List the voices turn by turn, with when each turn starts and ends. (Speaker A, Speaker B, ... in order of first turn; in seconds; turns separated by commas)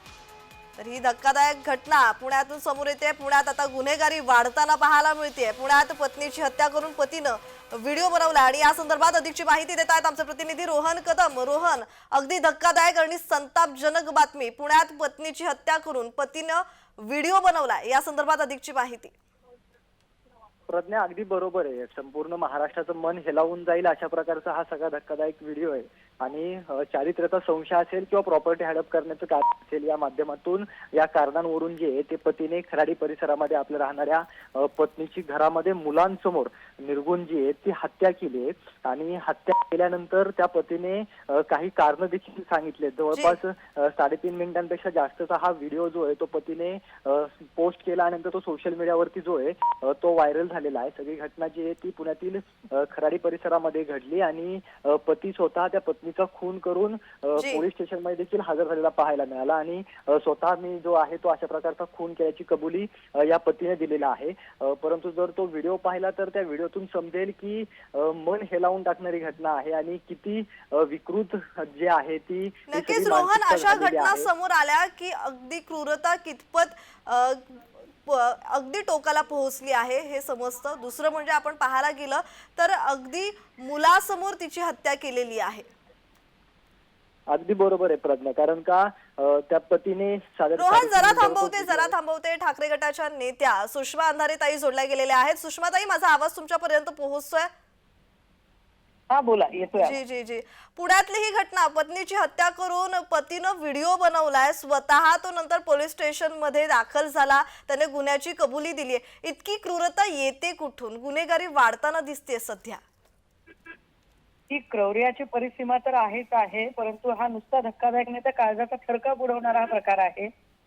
Speaker A: 0.8-19.1, Speaker B: 20.7-74.3, Speaker A: 43.1-43.4, Speaker A: 57.4-57.6, Speaker A: 72.7-85.7, Speaker B: 87.3-91.9, Speaker A: 90.6-97.5, Speaker C: 99.1-100.0, Speaker A: 99.8-112.8, Speaker C: 114.5-120.3